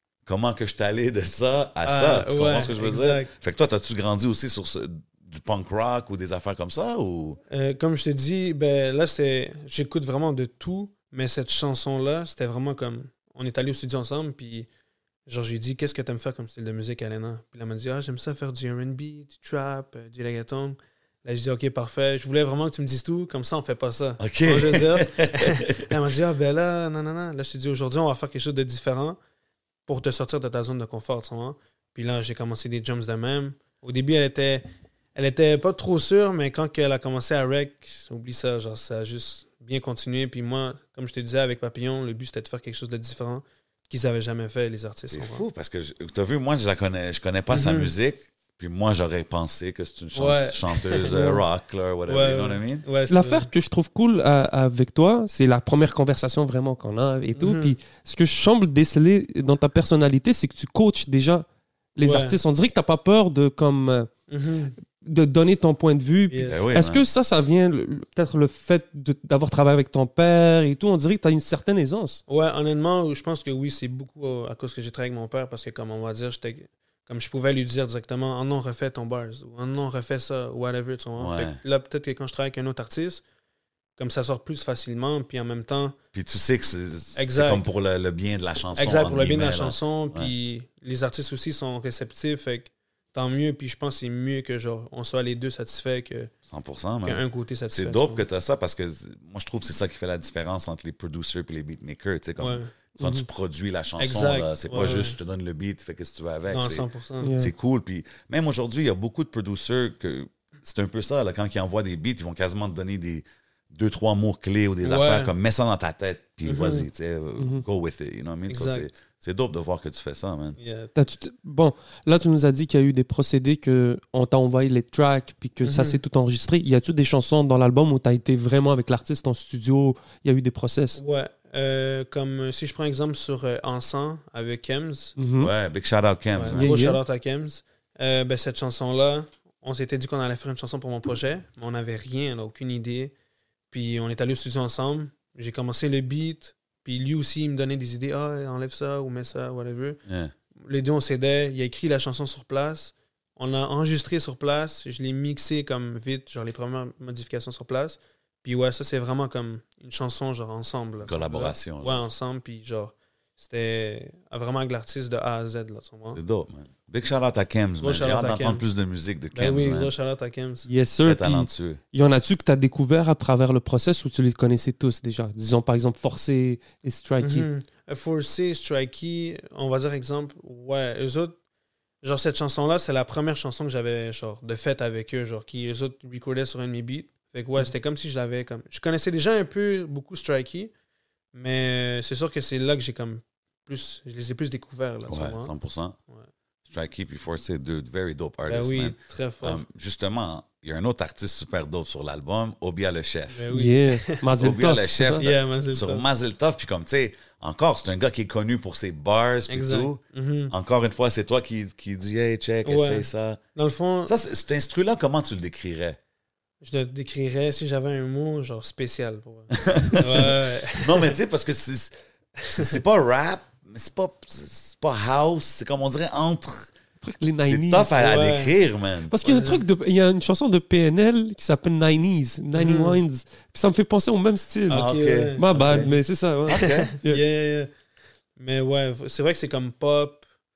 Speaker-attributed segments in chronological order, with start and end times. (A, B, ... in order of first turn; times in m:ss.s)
0:00.2-0:07.4 A
0:01.8-0:03.3 B
0:07.5-0:14.7 B
0:15.3-0:29.2 B
0:24.2-0:25.9 A
0:29.9-0:45.4 B
0:45.1-0:52.8 A
0:47.5-0:47.9 B
0:50.1-0:51.4 B
0:52.1-0:53.5 B
0:53.1-1:04.1 C
0:57.4-0:57.8 B
1:02.0-1:02.4 B
1:04.3-1:04.7 B
1:05.0-1:12.2 C
1:06.3-1:06.6 B
1:06.5-1:07.0 A
1:12.3-1:23.2 B
1:21.2-1:21.6 A
1:24.0-1:26.0 B
1:26.1-1:30.3 A
1:27.1-1:27.6 B
1:28.7-1:36.3 B
1:36.5-2:00.6 A
1:37.0-1:38.2 B
1:42.4-1:42.7 B
1:43.0-1:43.2 C
1:44.0-1:45.2 B
1:46.5-1:47.4 B
1:47.2-1:47.5 C
1:54.8-1:55.3 B
1:56.4-1:56.9 B
1:57.4-1:57.6 C
1:58.5-1:58.9 B
2:00.6-2:01.0 B
2:00.9-2:11.0 C
2:05.6-2:06.0 B
2:10.9-2:15.2 B
2:15.2-2:15.5 C
2:15.4-2:16.7 A
2:16.4-2:23.1 B
2:16.5-2:17.0 C
2:23.7-2:30.0 B
2:30.1-2:30.3 A
2:30.6-2:46.2 B
2:41.0-2:42.0 A
2:46.1-2:49.9 A
2:47.8-2:48.6 B
2:49.4-2:50.7 B
2:50.7-2:57.5 C
2:51.0-2:51.8 A
2:57.2-3:01.4 B
3:02.0-3:10.7 B
3:11.3-3:15.5 B
3:15.1-3:16.0 A
3:16.7-3:23.5 A
3:18.5-3:19.6 B
3:23.3-3:24.2 B
3:23.5-3:25.2 C
3:24.4-3:33.4 A
3:25.2-3:26.0 B
3:29.5-3:30.5 B
3:32.6-3:34.1 B
3:34.1-3:36.0 A
3:36.6-3:41.2 B
3:39.5-3:41.9 A
3:42.4-3:42.8 B
3:42.5-3:46.7 A
3:47.0-3:48.0 C
3:47.4-3:49.1 A
3:47.9-3:48.5 B
3:49.1-3:57.2 C
3:49.2-3:49.6 B
3:52.5-3:53.0 B
3:54.7-3:55.9 B
3:54.7-3:55.9 A
3:56.5-3:56.9 A
3:56.5-3:57.7 B
3:58.4-4:00.2 B